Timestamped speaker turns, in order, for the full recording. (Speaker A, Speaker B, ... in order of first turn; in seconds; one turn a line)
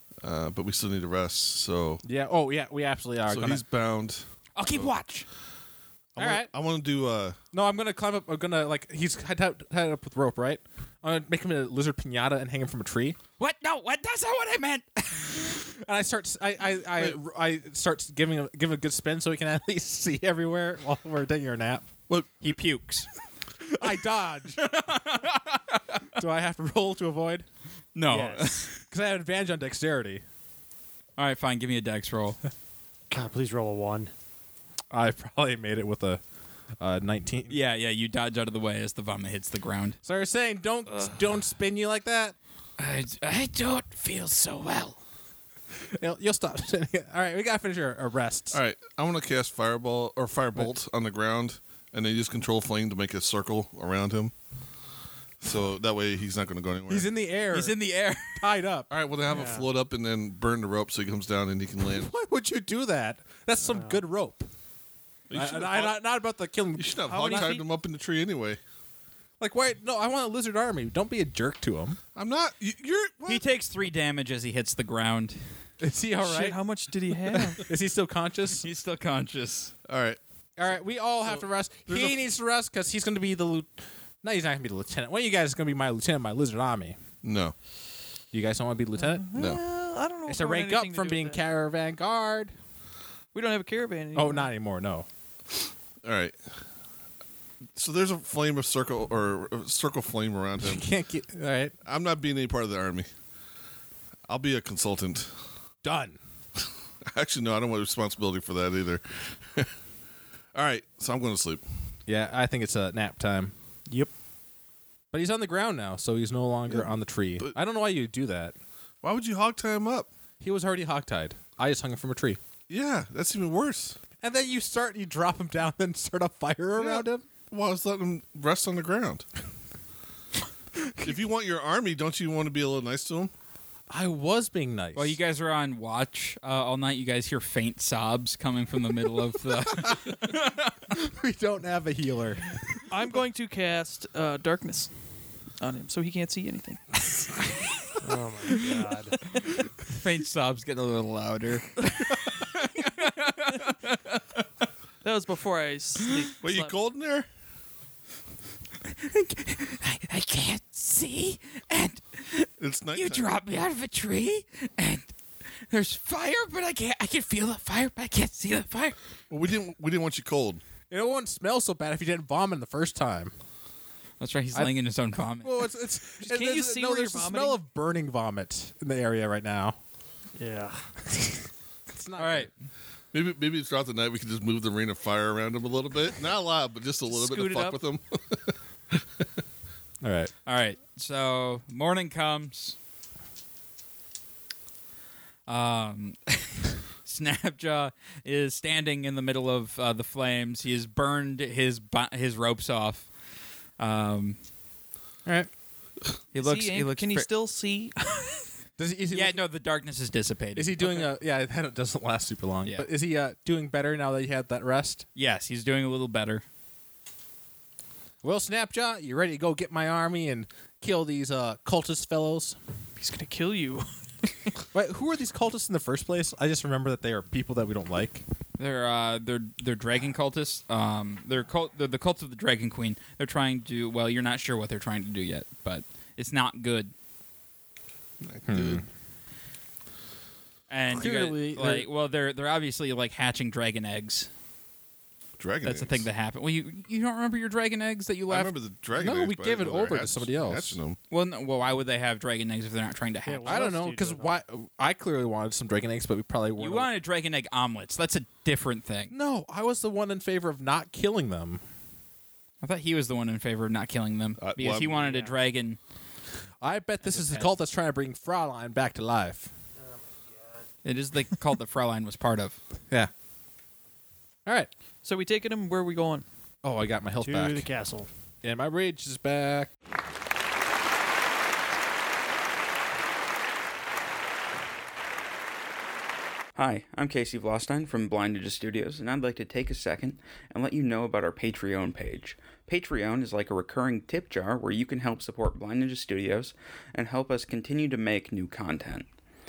Speaker A: 0.2-2.0
Speaker B: 2.0-3.6
Speaker A: 3.2-4.9
Speaker C: 4.5-5.3
Speaker A: 6.1-7.4
Speaker B: 6.2-6.5
Speaker B: 7.5-13.2
Speaker C: 13.4-15.6
Speaker B: 15.5-21.9
Speaker C: 22.4-23.1
Speaker B: 23.7-24.6
Speaker C: 24.6-26.0
Speaker B: 26.1-27.4
Speaker C: 27.9-28.8
Speaker D: 28.1-28.7
Speaker B: 28.9-30.2
Speaker C: 31.2-32.4
Speaker D: 33.1-34.1
Speaker B: 34.9-36.2
Speaker B: 36.8-37.6
Speaker C: 37.5-40.0
Speaker B: 40.0-42.3
Speaker C: 42.8-45.0
Speaker B: 45.8-48.6
Speaker A: 48.5-54.3
Speaker A: 55.4-57.0
Speaker B: 56.9-57.8
Speaker C: 57.5-58.5
Speaker B: 58.3-58.9
Speaker A: 58.9-62.1
Speaker D: 59.3-59.7
Speaker B: 61.9-64.5
Speaker D: 63.7-64.0
Speaker A: 65.3-66.0
Speaker B: 65.3-67.5
Speaker A: 66.8-68.6
Speaker E: 67.1-67.7
Speaker B: 69.4-72.0
Speaker A: 72.2-73.4
Speaker C: 73.3-75.4
Speaker B: 75.8-76.6
Speaker E: 76.2-77.6
Speaker B: 77.3-78.7
Speaker C: 78.6-79.7
Speaker A: 79.8-80.2
Speaker B: 80.6-83.7
Speaker A: 81.3-82.2
Speaker B: 84.2-87.0
Speaker A: 87.2-87.5
Speaker B: 88.3-89.3
Speaker E: 89.0-91.4
Speaker A: 89.3-89.6
Speaker B: 90.3-92.5
Speaker E: 93.3-94.5
Speaker B: 94.1-95.0
Speaker A: 96.0-96.3
Speaker A: 97.8-100.9
Speaker B: 100.6-101.7
Speaker A: 101.8-103.1
Speaker A: 104.3-105.3
Speaker B: 105.8-106.2
Speaker A: 107.0-109.7
Speaker A: 110.5-111.6
Speaker B: 112.1-113.5
Speaker B: 115.1-118.5
Speaker A: 116.7-117.5
Speaker A: 119.0-120.1
Speaker B: 120.4-122.4
Speaker A: 122.7-124.0
Speaker B: 124.2-127.2
Speaker A: 126.8-129.2
Speaker A: 131.0-133.3
Speaker B: 133.9-135.2
Speaker C: 134.9-140.7
Speaker B: 140.9-142.6
Speaker E: 142.9-144.9
Speaker E: 145.6-147.0
Speaker D: 148.0-149.2
Speaker C: 149.8-154.2
Speaker E: 155.0-156.8
Speaker A: 156.4-157.3
Speaker C: 158.9-165.1
Speaker A: 162.6-163.3
Speaker C: 165.7-169.0
Speaker A: 169.3-170.6
Speaker B: 170.9-173.3
Speaker C: 174.2-175.7
Speaker B: 175.4-179.8
Speaker E: 176.2-177.6
Speaker D: 180.4-180.9
Speaker B: 181.1-181.4
Speaker B: 181.9-182.5
Speaker C: 182.2-182.5
Speaker A: 183.1-189.0
Speaker E: 187.1-187.8
Speaker B: 190.0-190.3
Speaker C: 190.4-192.7
Speaker C: 195.5-203.1
Speaker C: 203.8-204.4
Speaker B: 205.2-205.5
Speaker C: 206.3-207.3
Speaker E: 206.3-208.5
Speaker B: 208.8-209.4
Speaker C: 209.1-211.1
Speaker B: 210.6-215.1
Speaker C: 215.1-216.4
Speaker B: 218.2-222.6
Speaker E: 223.0-224.5
Speaker B: 224.7-228.2
Speaker C: 228.6-236.9
Speaker A: 238.2-238.8
Speaker B: 238.5-238.8
Speaker C: 240.7-244.3
Speaker B: 240.9-241.9
Speaker A: 245.4-246.1
Speaker C: 245.6-248.5
Speaker A: 248.3-251.0
Speaker B: 248.9-250.8
Speaker C: 251.1-253.7
Speaker D: 253.2-254.4
Speaker B: 253.4-256.9
Speaker C: 256.6-259.1
Speaker B: 259.1-261.6
Speaker C: 262.6-265.8
Speaker A: 264.4-264.9
Speaker D: 264.9-265.3
Speaker B: 266.6-269.5
Speaker C: 267.0-267.5
Speaker D: 269.8-270.6
Speaker C: 270.8-272.6
Speaker E: 275.0-276.2
Speaker B: 276.6-277.7
Speaker D: 277.2-278.1
Speaker B: 278.4-279.7
Speaker F: 286.6-299.1